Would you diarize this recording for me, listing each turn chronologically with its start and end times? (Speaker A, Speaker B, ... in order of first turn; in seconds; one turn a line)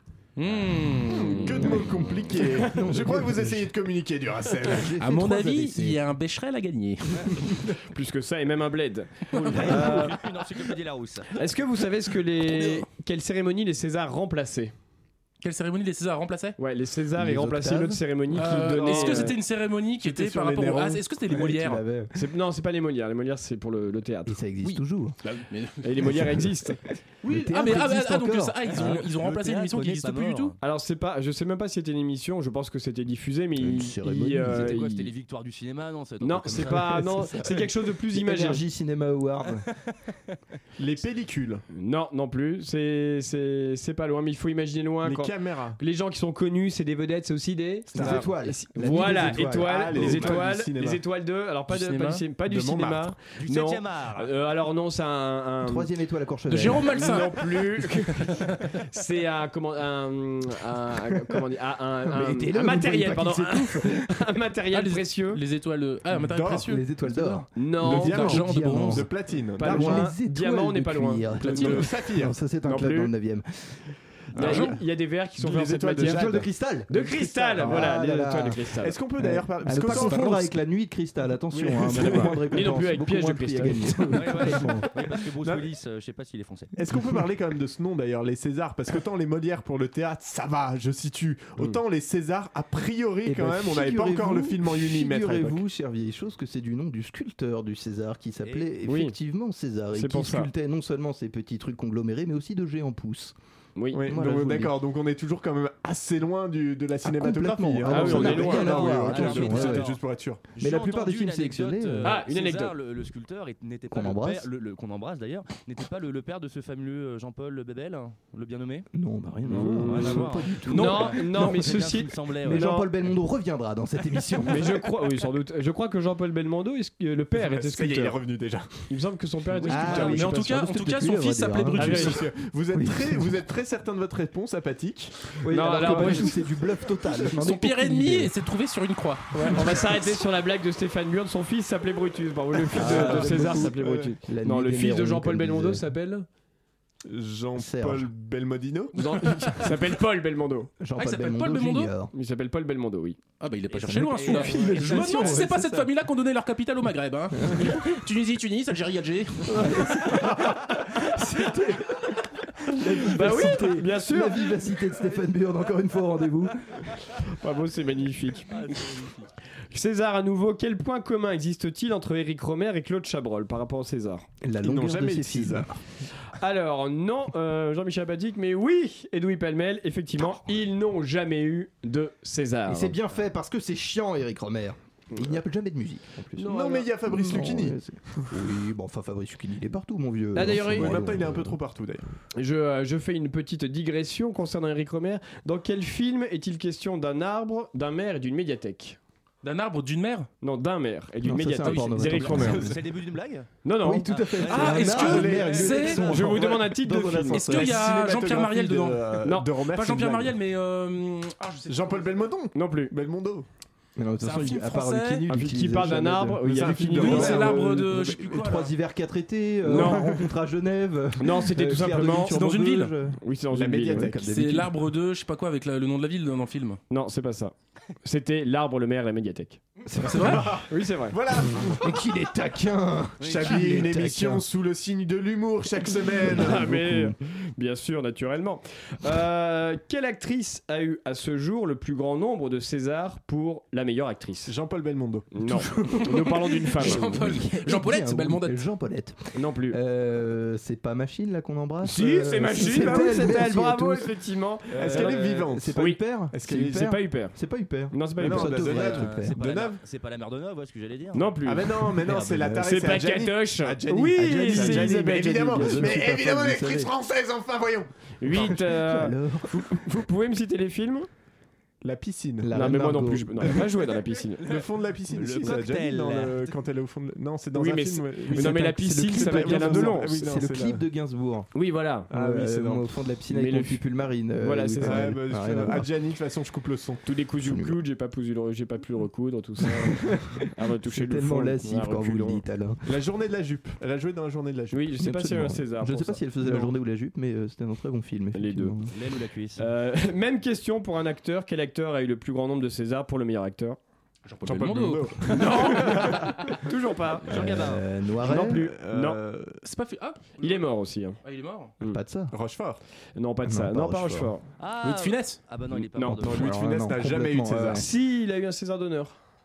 Speaker A: 0.4-1.8
Speaker B: 1.1-4.9
Speaker C: 2.6-3.7
Speaker C: 4.6-6.0
Speaker A: 5.0-7.6
Speaker D: 7.9-10.1
Speaker E: 9.4-11.4
Speaker A: 9.4-10.1
Speaker C: 9.5-10.0
Speaker D: 11.3-14.7
Speaker A: 15.4-16.6
Speaker D: 16.6-19.4
Speaker C: 17.1-19.2
Speaker A: 18.3-21.8
Speaker B: 20.0-21.0
Speaker C: 21.3-22.1
Speaker D: 22.1-24.4
Speaker C: 24.2-25.2
Speaker A: 24.6-26.4
Speaker D: 25.8-26.8
Speaker C: 26.0-26.4
Speaker C: 27.2-29.1
Speaker A: 27.2-30.5
Speaker E: 28.7-30.6
Speaker D: 30.6-35.1
Speaker C: 33.6-34.8
Speaker E: 34.4-37.2
Speaker D: 36.2-38.6
Speaker C: 36.6-39.6
Speaker B: 40.8-41.6
Speaker D: 41.7-55.9
Speaker B: 45.0-45.8
Speaker C: 47.9-50.4
Speaker B: 48.9-51.0
Speaker A: 51.7-52.2
Speaker B: 52.5-53.1
Speaker E: 53.4-54.3
Speaker C: 55.6-57.2
Speaker A: 56.5-58.7
Speaker D: 56.9-65.4
Speaker C: 62.0-64.1
Speaker A: 64.7-66.8
Speaker C: 66.2-73.8
Speaker B: 66.2-66.8
Speaker D: 67.5-68.4
Speaker B: 67.8-70.1
Speaker A: 67.9-69.1
Speaker D: 69.6-71.8
Speaker B: 71.4-72.3
Speaker D: 72.6-73.1
Speaker B: 74.3-74.7
Speaker D: 74.3-76.2
Speaker A: 74.4-74.8
Speaker B: 75.4-76.5
Speaker C: 76.0-84.9
Speaker D: 76.9-78.9
Speaker B: 77.6-77.8
Speaker B: 78.8-80.5
Speaker B: 81.5-82.4
Speaker D: 81.7-84.3
Speaker E: 84.1-86.7
Speaker B: 86.8-95.6
Speaker C: 93.2-103.3
Speaker E: 98.4-98.7
Speaker D: 98.8-99.1
Speaker D: 99.9-100.5
Speaker B: 103.9-110.4
Speaker C: 104.0-104.7
Speaker C: 107.0-109.9
Speaker D: 107.9-109.8
Speaker E: 108.1-110.0
Speaker E: 110.5-118.9
Speaker C: 110.6-112.2
Speaker D: 112.0-112.8
Speaker C: 113.9-114.5
Speaker C: 118.9-121.6
Speaker D: 119.5-122.9
Speaker E: 119.6-122.8
Speaker A: 120.7-121.0
Speaker C: 122.4-124.8
Speaker D: 124.5-128.2
Speaker B: 127.3-128.8
Speaker D: 128.9-130.4
Speaker C: 129.7-132.2
Speaker A: 129.7-132.2
Speaker D: 131.8-132.1
Speaker B: 131.8-136.2
Speaker C: 132.7-133.3
Speaker C: 135.4-138.3
Speaker D: 135.5-136.4
Speaker A: 137.4-139.8
Speaker D: 139.3-146.2
Speaker C: 142.7-145.8
Speaker B: 142.9-144.1
Speaker B: 147.1-149.2
Speaker C: 147.5-148.1
Speaker D: 148.9-150.7
Speaker C: 150.8-152.1
Speaker A: 151.0-151.9
Speaker D: 152.1-153.2
Speaker A: 153.4-160.3
Speaker E: 153.7-155.5
Speaker C: 153.9-155.9
Speaker C: 157.4-157.8
Speaker C: 159.5-166.7
Speaker D: 163.1-164.5
Speaker D: 167.3-168.5
Speaker E: 168.6-169.2
Speaker D: 169.7-174.3
Speaker C: 174.4-175.7
Speaker B: 174.6-175.8
Speaker D: 176.3-182.9
Speaker C: 182.7-191.6
Speaker D: 186.4-186.9
Speaker B: 186.5-187.8
Speaker D: 190.3-190.9
Speaker B: 190.4-192.1
Speaker D: 192.3-199.0
Speaker A: 199.4-200.3
Speaker D: 200.4-202.6
Speaker C: 201.2-202.7
Speaker A: 201.6-202.7
Speaker E: 202.2-203.5
Speaker D: 203.6-207.6
Speaker C: 203.8-207.9
Speaker E: 204.1-206.3
Speaker A: 204.5-206.2
Speaker B: 204.9-205.8
Speaker A: 207.3-212.2
Speaker B: 207.6-210.3
Speaker B: 211.7-213.4
Speaker D: 212.5-212.9
Speaker C: 214.0-223.2
Speaker A: 214.2-215.2
Speaker D: 215.3-217.7
Speaker B: 216.4-217.7
Speaker A: 216.9-218.7
Speaker D: 219.7-220.2
Speaker D: 221.2-222.4
Speaker A: 222.1-222.9
Speaker D: 223.2-224.1
Speaker B: 223.5-224.3
Speaker C: 223.7-224.7
Speaker A: 224.2-226.8
Speaker D: 226.9-229.6
Speaker C: 229.8-230.6
Speaker A: 230.0-230.6
Speaker B: 230.1-232.0
Speaker D: 230.7-231.2
Speaker C: 231.8-234.4
Speaker E: 233.2-233.6
Speaker B: 233.2-236.7
Speaker C: 236.2-237.1
Speaker D: 236.3-244.5
Speaker B: 244.4-245.3
Speaker D: 245.3-247.2
Speaker C: 245.8-254.1
Speaker A: 245.9-248.6
Speaker D: 249.3-249.8
Speaker D: 251.8-256.0
Speaker B: 254.7-255.8
Speaker C: 254.7-259.4
Speaker B: 256.3-256.9
Speaker D: 256.7-257.3
Speaker D: 257.9-258.8
Speaker B: 258.2-259.8
Speaker E: 258.7-261.4
Speaker D: 261.1-261.9
Speaker B: 261.4-267.9
Speaker C: 262.0-262.8
Speaker D: 262.5-266.0
Speaker C: 264.4-266.9
Speaker D: 268.2-271.1
Speaker C: 268.3-269.8
Speaker B: 271.8-272.5
Speaker C: 272.4-273.7
Speaker D: 272.5-274.4
Speaker B: 274.4-280.8
Speaker E: 275.1-276.5
Speaker D: 277.5-280.2
Speaker C: 278.3-281.5
Speaker D: 281.5-282.1
Speaker C: 282.1-285.9
Speaker B: 282.1-282.9
Speaker D: 283.3-283.8
Speaker D: 284.4-285.1
Speaker B: 284.8-287.0
Speaker D: 287.1-292.4
Speaker C: 287.4-287.8
Speaker C: 290.8-292.8
Speaker B: 292.8-294.9
Speaker D: 294.7-296.2
Speaker C: 295.0-298.9
Speaker B: 296.4-296.7
Speaker D: 298.3-298.7
Speaker E: 298.9-299.6
Speaker D: 299.6-303.8
Speaker A: 304.2-306.5
Speaker B: 304.4-306.3
Speaker D: 305.3-307.7
Speaker E: 307.3-307.8
Speaker C: 307.3-308.7
Speaker D: 308.2-309.2
Speaker B: 308.4-309.6
Speaker A: 309.6-310.6
Speaker D: 310.4-311.2
Speaker A: 311.2-311.8
Speaker C: 311.8-312.3
Speaker B: 312.3-312.8
Speaker D: 313.1-314.4
Speaker C: 313.4-314.3
Speaker E: 314.6-316.6
Speaker A: 314.8-315.4
Speaker D: 315.9-316.2
Speaker B: 316.2-317.8
Speaker C: 316.2-317.9
Speaker D: 317.7-319.1